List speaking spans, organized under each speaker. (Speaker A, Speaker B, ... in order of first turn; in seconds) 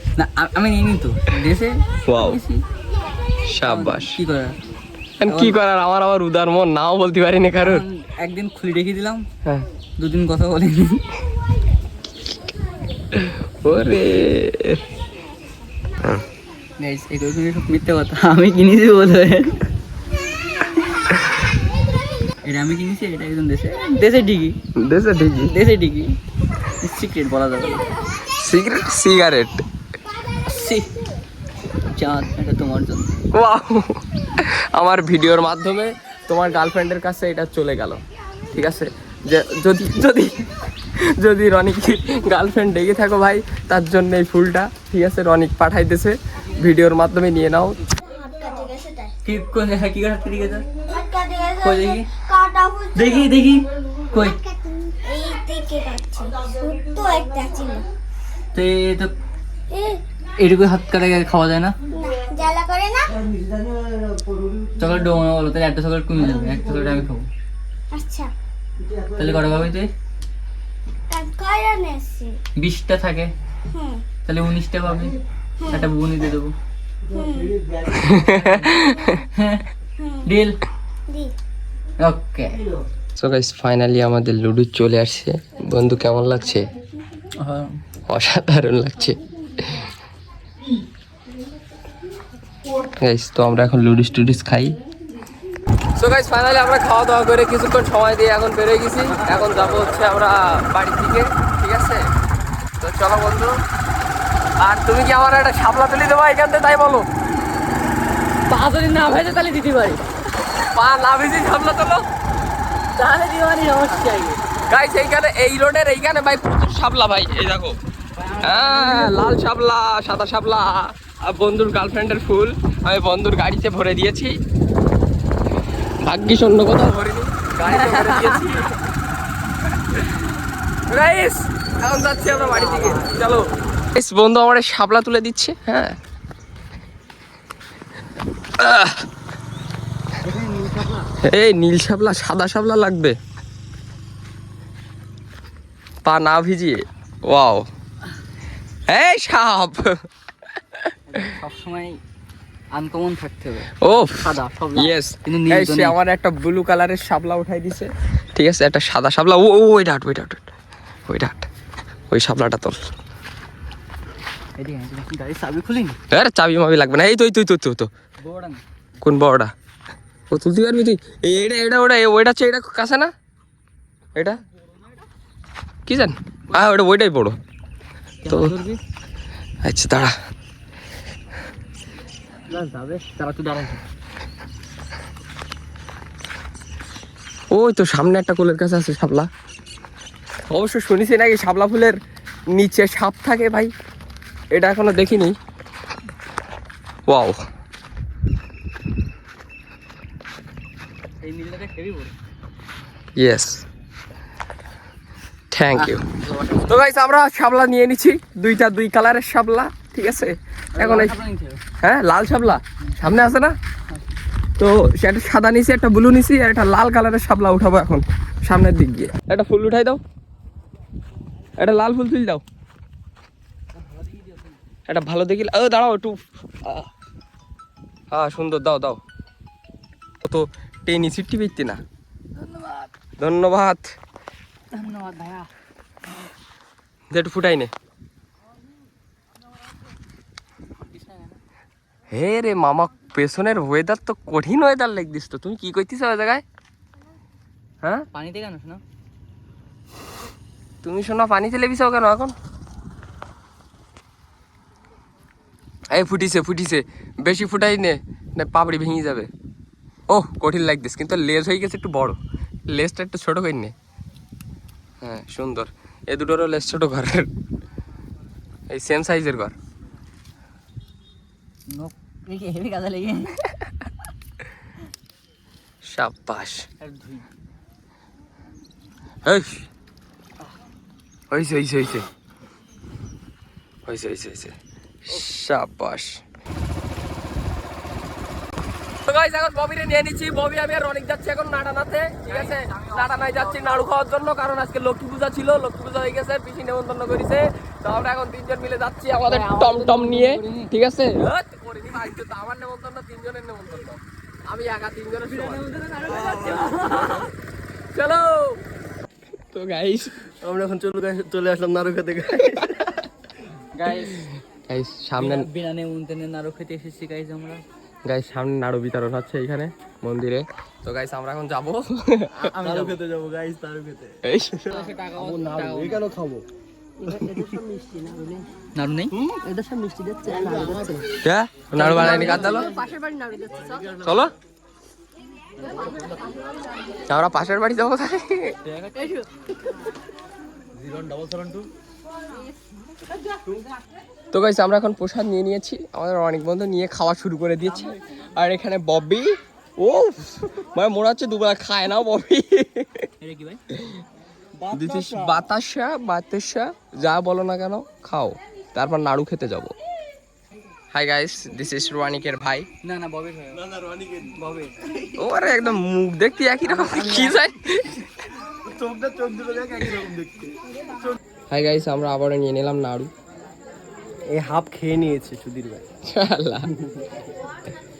Speaker A: 0.2-2.6, 3.7-4.6, 5.3-5.6, 7.6-9.3, 10.0-11.1, 16.8-19.7, 22.4-24.6, 25.4-26.2, 26.8-27.9, 30.5-30.9, 31.9-33.2, 49.2-50.7, 51.6-52.1, 52.9-54.4, 58.5-59.1, 60.4-61.8, 64.8-67.3, 69.1-69.9, 72.6-73.3, 74.2-76.5, 78.2-79.7, 80.2-80.6, 82.0-82.7, 87.4-87.8, 99.1-100.1, 108.5-110.0, 113.0-114.4, 118.2-119.4, 127.7-128.5, 132.5-133.4, 140.2-141.1, 151.1-152.0, 152.7-156.0, 164.6-166.0, 168.2-168.6, 178.2-178.8, 182.5-183.8, 201.2-202.1, 205.8-206.7, 210.8-211.6, 224.0-224.4, 232.4-232.9, 234.7-235.5, 240.8-241.4, 248.1-248.8, 271.7-273.5, 276.8-277.3, 292.3-293.8, 299.2-300.7, 305.3-307.3, 313.8-314.2, 315.2-317.6, 322.3-323.0, 324.7-326.0, 328.8-329.1, 329.9-331.0, 331.7-333.8, 335.6-336.2, 338.7-339.3, 353.2-353.6, 362.8-363.7, 364.3-365.0
Speaker B: 2.1-2.4, 3.5-4.2, 5.2-7.8, 13.1-14.8, 24.8-25.5, 28.2-29.6, 33.3-47.8, 77.8-79.2, 83.2-86.7, 88.1-89.9, 93.0-94.8, 96.0-102.1, 102.8-103.6, 104.6-107.1, 110.5-112.0, 114.7-117.8, 118.4-124.3, 126.0-128.8, 130.9-136.0, 138.6-139.1, 141.2-143.2, 146.1-147.7, 148.9-150.0, 150.6-150.9, 153.8-160.5, 161.1-161.4, 162.1-162.9, 166.1-167.9, 169.0-169.5, 170.3-173.1, 175.9-177.4, 178.3-178.5, 179.6-180.2, 187.5-189.3, 190.5-192.0, 192.5-193.7, 194.5-195.4, 197.1-197.4, 203.2-203.6, 205.5-206.1, 206.7-211.2, 211.8-213.6, 214.6-220.0, 221.6-222.4, 224.9-226.9, 228.1-229.0, 230.2-231.8, 233.2-233.8, 237.1-237.7, 242.1-246.4, 250.8-252.3, 255.9-259.3, 260.1-263.7, 265.0-267.3, 268.7-269.5, 275.9-276.6, 279.2-279.7, 281.3-282.1, 283.9-284.6, 285.1-286.2, 289.1-305.7, 306.7-307.2, 307.9-308.6, 309.5-310.2, 312.4-312.9, 313.9-315.5, 318.1-322.4, 324.2-324.6, 331.2-332.7, 334.0-334.3, 337.1-338.6, 344.3-353.1, 353.8-354.0, 354.7-359.7, 360.9-362.7, 365.2-368.1, 371.5-373.1, 376.1-376.7
Speaker C: 48.2-49.1, 50.9-53.3, 54.1-57.9, 59.7-60.0, 61.9-63.2, 67.9-68.3, 71.1-72.4, 73.7-74.1, 75.6-75.9, 77.1-77.6, 80.0-80.3, 81.1-81.3
Speaker D: 306.2-307.1, 310.4-312.9, 322.6-326.5, 327.0-328.4, 329.2-331.1, 333.5-333.9, 340.8-341.7, 354.6-355.4, 363.6-364.5, 366.9-367.3, 368.5-371.2, 374.3-375.9, 376.8-377.1